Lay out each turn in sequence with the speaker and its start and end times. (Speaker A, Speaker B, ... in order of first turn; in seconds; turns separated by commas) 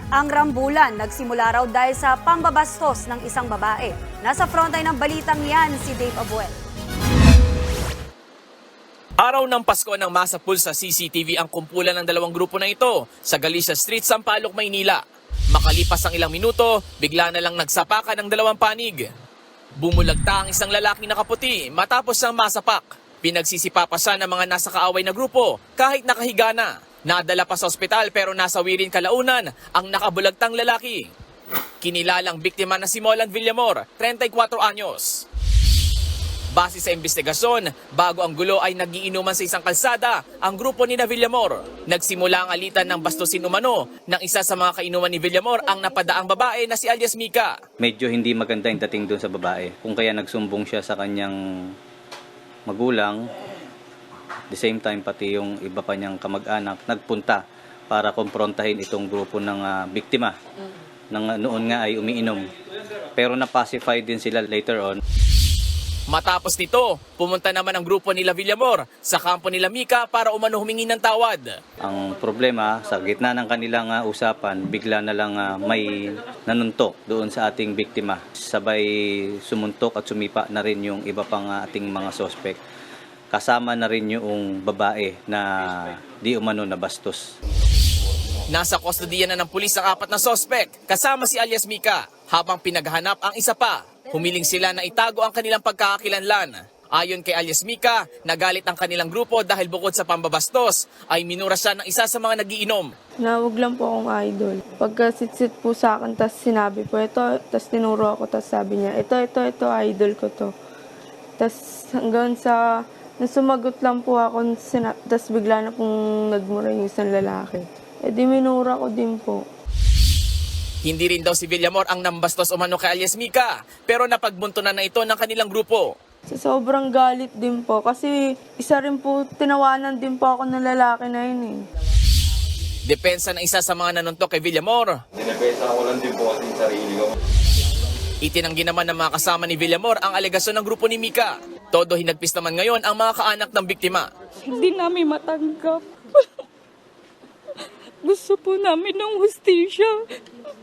Speaker A: 0.1-6.5, Speaker B: 9.2-19.0, Speaker B: 19.8-31.1, Speaker B: 31.8-35.2, Speaker B: 36.5-47.6, Speaker C: 47.8-51.7, Speaker C: 52.7-53.3, Speaker C: 54.5-60.3, Speaker C: 61.1-62.5, Speaker C: 63.1-65.0, Speaker B: 66.1-71.5, Speaker C: 71.8-82.6, Speaker C: 83.3-87.3, Speaker B: 88.5-102.9, Speaker D: 103.2-110.5, Speaker D: 111.4-112.6, Speaker D: 113.2-119.4, Speaker B: 120.8-125.9, Speaker D: 126.3-131.6, Speaker B: 132.9-135.0, Speaker E: 135.2-137.1, Speaker B: 138.2-144.1, Speaker F: 144.5-146.2, Speaker F: 148.0-150.0